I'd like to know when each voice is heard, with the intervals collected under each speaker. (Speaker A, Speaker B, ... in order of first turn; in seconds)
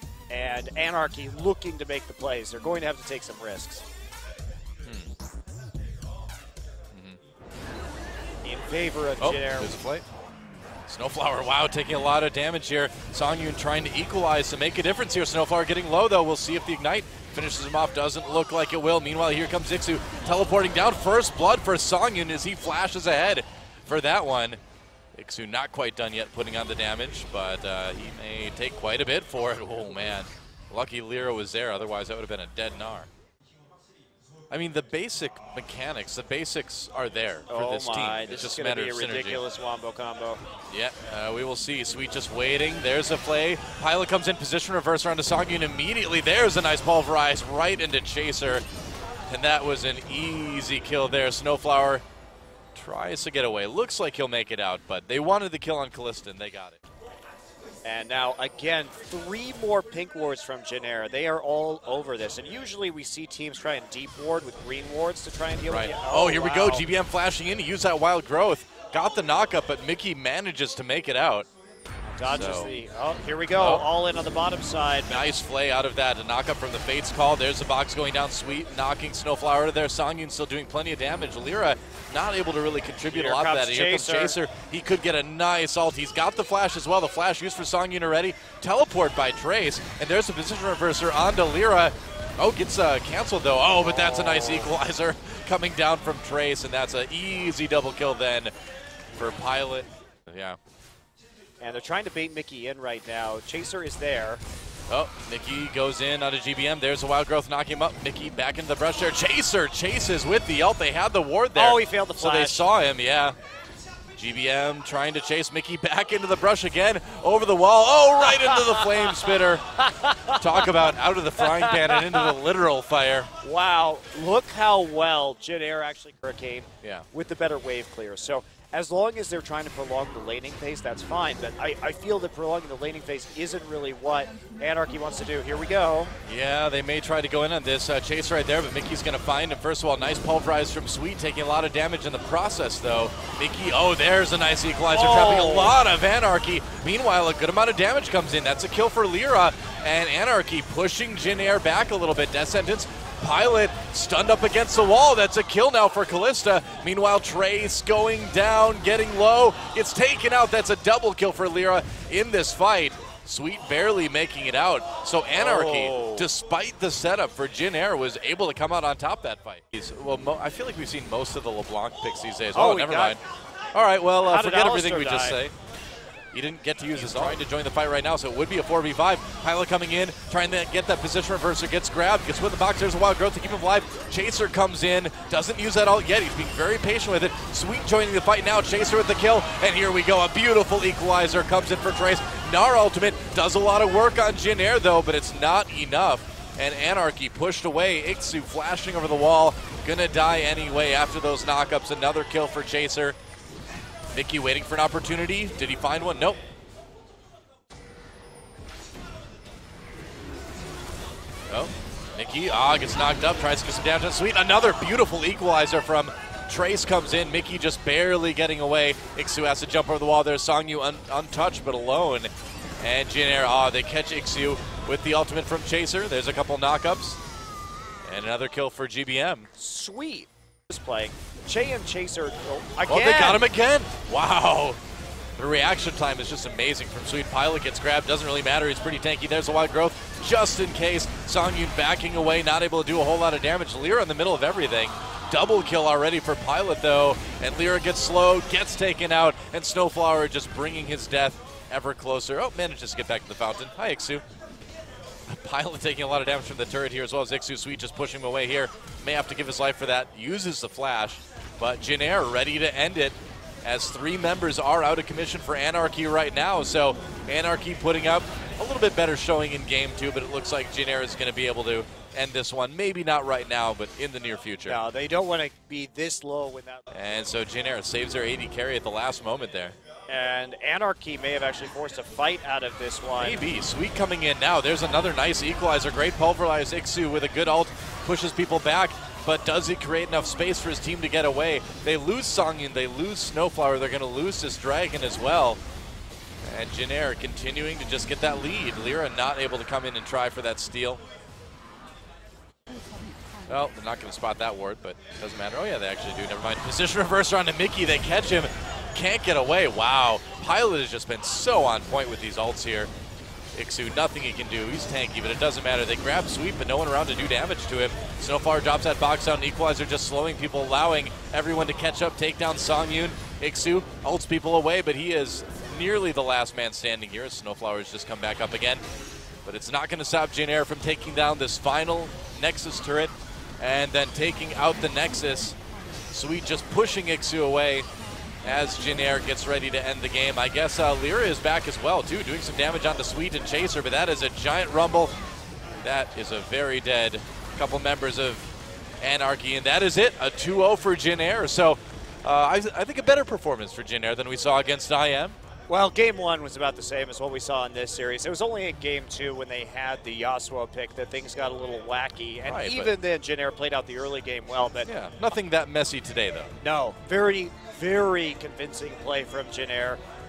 Speaker A: 0.3-3.9, 8.4-9.7, 37.5-40.4, 57.9-66.8, 72.1-75.2, 83.1-84.4, 93.8-94.7, 101.6-104.4, 111.5-112.7, 118.2-122.3, 123.4-136.1, 144.9-145.8, 165.3-166.3, 172.5-173.2, 174.3-175.4, 177.0-177.4, 229.6-233.4, 274.7-277.3, 280.1-283.5, 355.7-364.9, 366.6-370.0
Speaker B: 4.8-5.1, 6.9-7.2, 9.2-10.1, 10.9-24.6, 25.2-33.1, 34.5-39.4, 40.7-48.6, 49.3-52.0, 52.8-56.8, 65.7-71.5, 72.3-72.7, 73.5-73.9, 75.1-98.5, 99.2-100.6, 104.9-113.4, 114.2-119.7, 120.3-123.3, 136.2-173.2, 173.7-175.5, 176.3-203.2, 204.1-206.4, 211.5-227.2, 228.1-229.5, 232.9-234.8, 235.4-254.2, 255.3-274.8, 276.9-279.8, 283.2-295.6, 296.4-301.0, 303.5-312.9, 313.6-328.8, 329.4-335.6, 336.1-337.9, 338.4-345.1, 345.8-355.4, 362.5-362.9, 364.9-366.6